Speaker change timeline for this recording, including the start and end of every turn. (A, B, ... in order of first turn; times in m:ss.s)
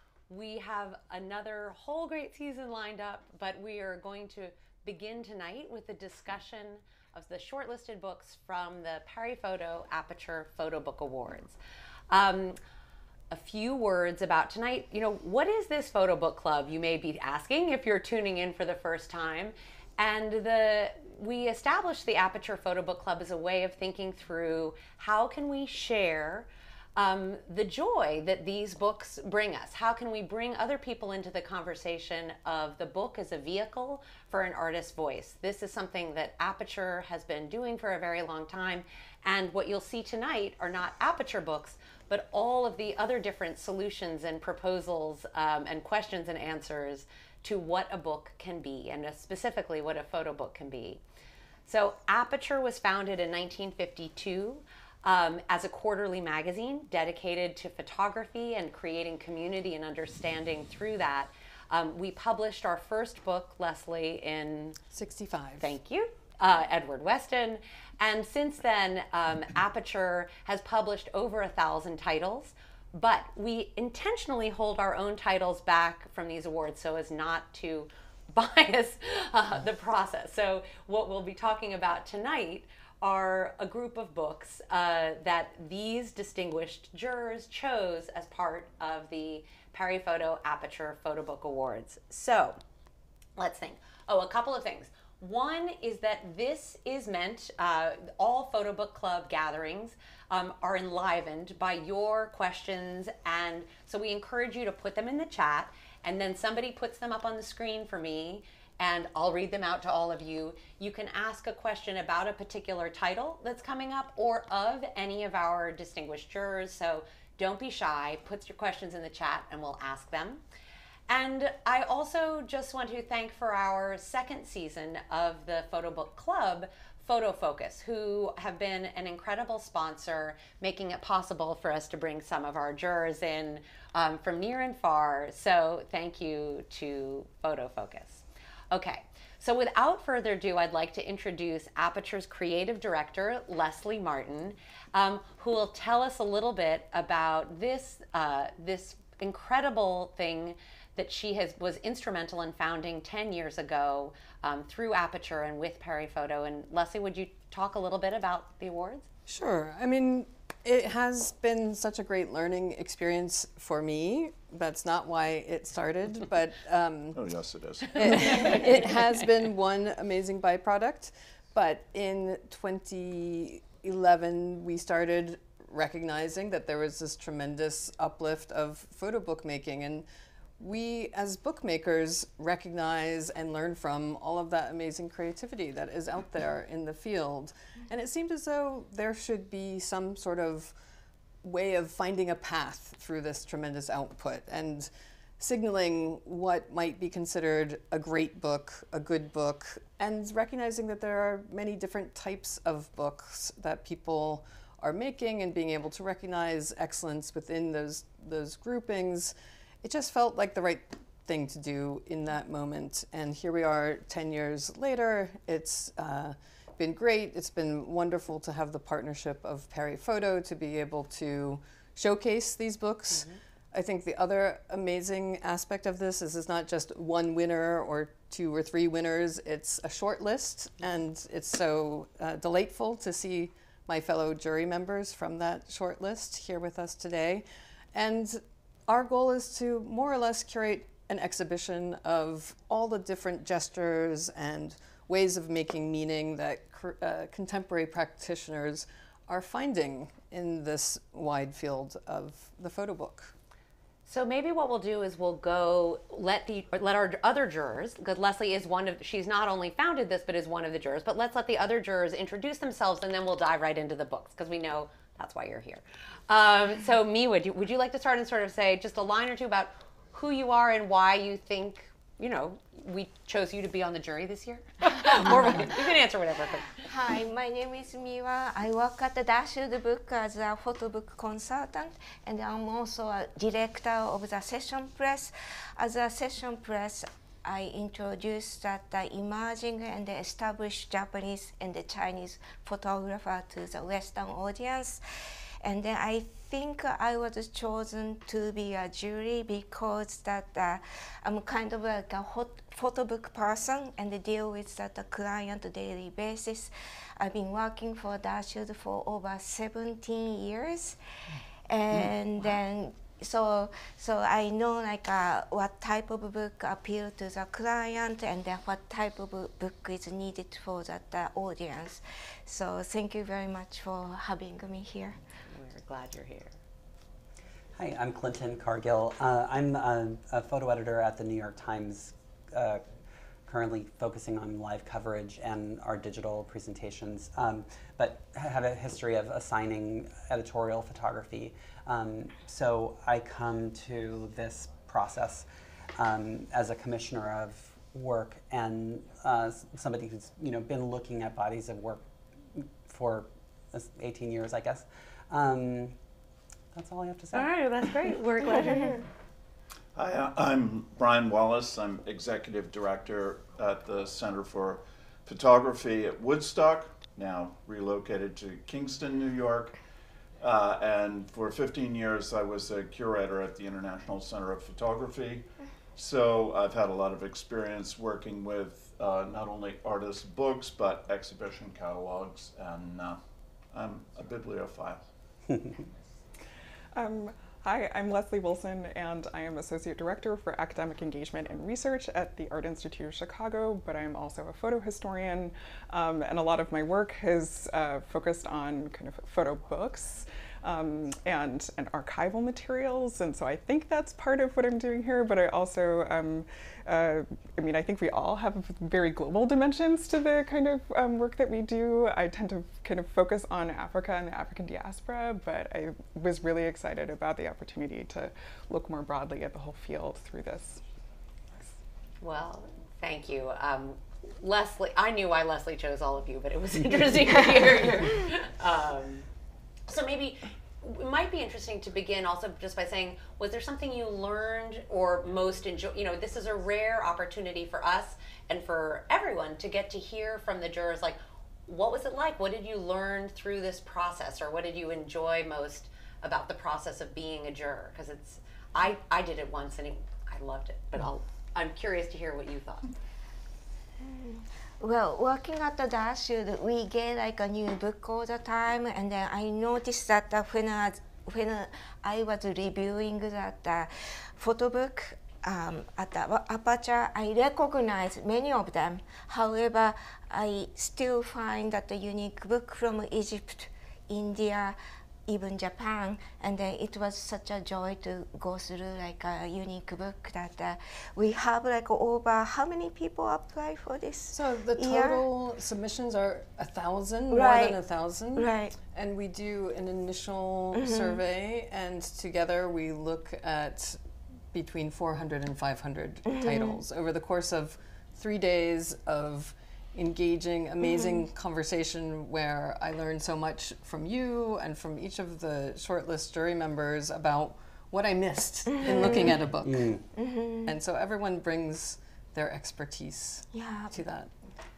0:00.3-0:11.6 A
0:12.1-0:12.6 A
0:13.3-0:51.0 A
0:51.6-1:04.8 A
1:04.9-1:05.7 B
1:05.6-1:32.6 A
1:33.4-2:00.4 A
2:01.1-2:39.1 A
2:39.3-2:47.2 B
2:47.1-2:48.6 C
2:47.9-3:00.0 B
3:00.6-3:10.7 B
3:11.4-4:13.3 B
4:14.0-4:36.8 A
4:36.8-4:55.0 D
4:55.6-5:11.0 D
5:11.7-5:25.2 D
5:25.5-5:26.6 A
5:27.8-5:32.8 E
5:33.5-5:52.0 E
5:52.6-5:56.0 E
5:56.7-5:57.5 E
5:57.3-5:59.0 A
6:00.0-6:09.8 C
6:10.4-6:23.2 C
6:23.7-6:25.0 C
6:25.5-6:25.8 E
6:26.9-7:00.8 F
7:02.2-7:09.2 A
7:09.9-7:32.9 A
7:34.0-8:05.2 D
8:04.3-8:14.0 B
8:07.3-8:07.8 D
8:08.4-8:08.8 D
8:10.8-8:11.2 D
8:14.5-8:30.0 B
8:16.3-8:16.8 D
8:20.8-8:21.1 D
8:28.8-8:29.2 D
8:29.6-8:30.0 E
8:30.2-8:30.7 D
8:30.6-8:34.3 B
8:33.5-8:33.9 D